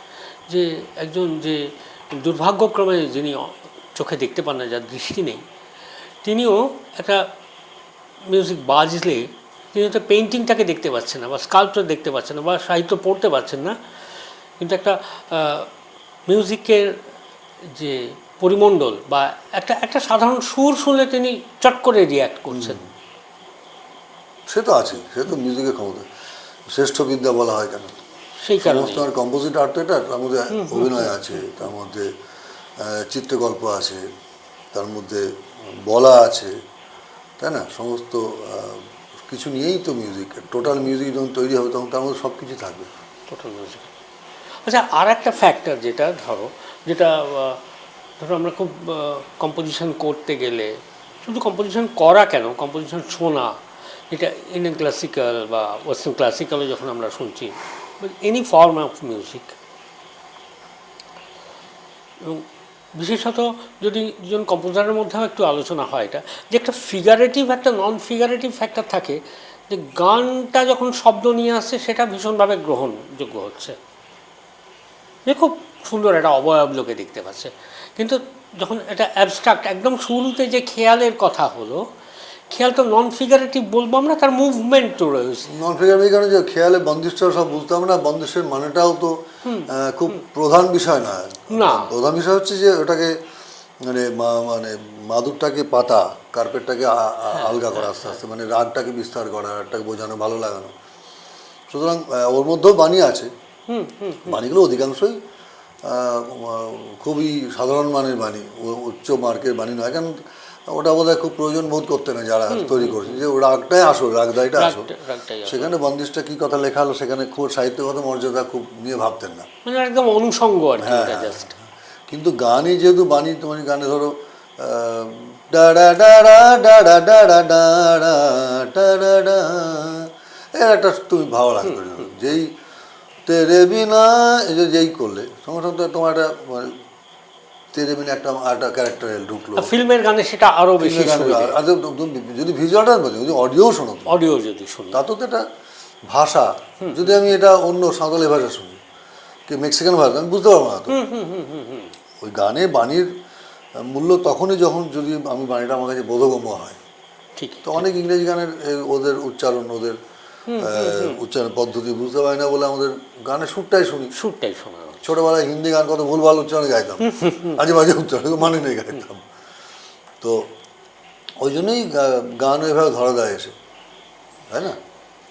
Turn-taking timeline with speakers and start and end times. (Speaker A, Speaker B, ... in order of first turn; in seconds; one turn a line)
Speaker A: 0.5-5.4
Speaker A: 6.2-7.3
Speaker A: 8.3-13.7
Speaker A: 14.6-15.7
Speaker A: 16.3-17.0
Speaker A: 17.7-22.8
Speaker B: 22.5-22.9
Speaker B: 24.5-26.0
Speaker B: 26.7-27.9
Speaker A: 28.4-29.1
Speaker B: 28.6-32.1
Speaker A: 30.5-31.6
Speaker B: 32.8-34.0
Speaker B: 34.7-36.5
Speaker B: 37.4-42.9
Speaker A: 43.3-43.9
Speaker A: 44.6-47.6
Speaker A: 48.2-53.6
Speaker A: 54.1-59.5
Speaker A: 62.2-73.8
Speaker A: 75.2-81.8
Speaker A: 82.5-85.5
Speaker B: 85.5-89.2
Speaker A: 89.4-89.7
Speaker B: 89.7-93.2
Speaker A: 91.5-91.9
Speaker B: 93.8-100.7
Speaker A: 97.3-98.2
Speaker B: 101.7-103.3
Speaker A: 103.7-104.4
Speaker B: 104.3-105.2
Speaker B: 105.8-114.9
Speaker A: 112.5-113.2
Speaker A: 114.5-115.7
Speaker B: 115.5-119.5
Speaker A: 119.6-121.5
Speaker B: 120.8-132.5
Speaker A: 131.6-132.1
Speaker B: 133.2-136.8
Speaker B: 137.7-139.7
Speaker A: 139.6-141.6
Speaker B: 140.8-144.2
Speaker A: 144.1-145.0
Speaker B: 144.9-145.4
Speaker B: 146.1-148.8
Speaker A: 146.8-147.1
Speaker B: 149.5-151.0
Speaker A: 150.9-151.9
Speaker B: 152.2-153.1
Speaker B: 153.8-156.8
Speaker A: 157.4-157.8
Speaker B: 157.6-160.0
Speaker A: 160.5-161.2
Speaker B: 160.6-164.1
Speaker A: 164.1-165.0
Speaker B: 165.0-169.2
Speaker A: 167.0-167.6
Speaker B: 170.2-170.5
Speaker B: 171.4-173.5
Speaker B: 174.5-174.8